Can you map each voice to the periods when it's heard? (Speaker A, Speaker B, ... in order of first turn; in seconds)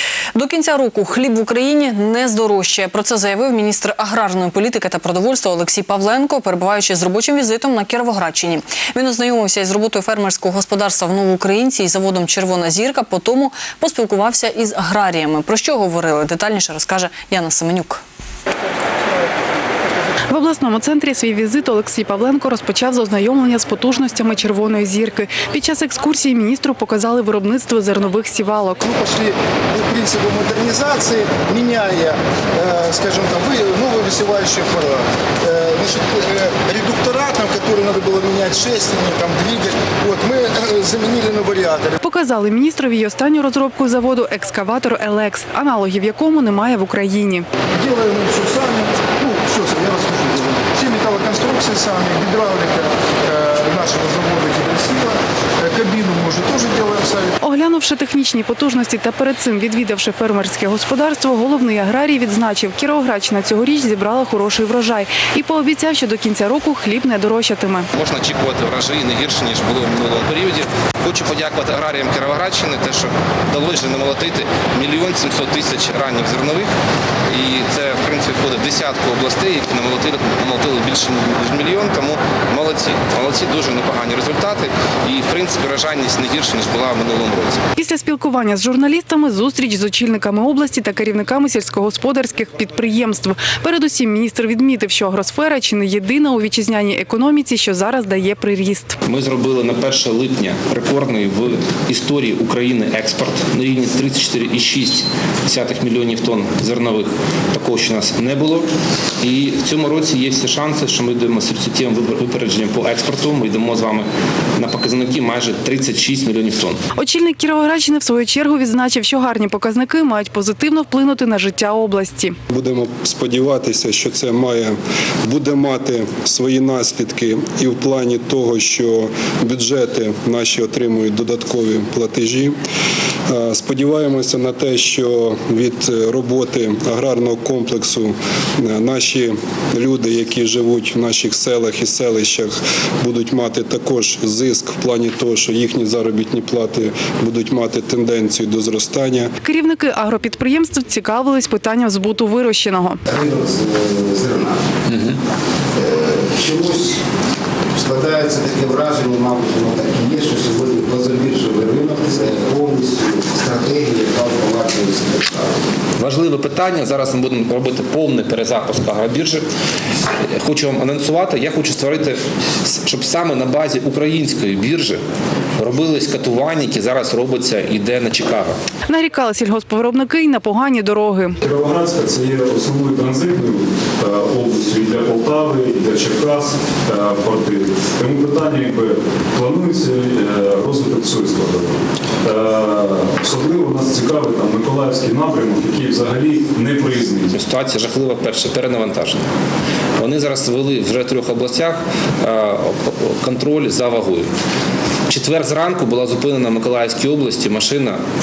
Speaker A: 0.3-18.0
Speaker B: 20.3-28.9, 42.0-47.5, 57.4-67.9, 87.8-99.0, 116.9-122.3, 149.4-153.0, 178.9-181.4
Speaker C: 28.9-42.0, 47.8-57.3
Speaker D: 67.9-76.7, 77.3-87.6, 99.0-108.7, 109.2-116.8, 154.9-155.2, 166.0-169.4, 170.4-175.0, 175.6-178.6, 197.3-199.2, 200.0-204.3, 205.1-208.0
Speaker E: 122.5-132.6, 133.3-149.3
Speaker F: 153.1-154.6, 155.8-157.0, 157.7-165.6
Speaker G: 181.4-197.3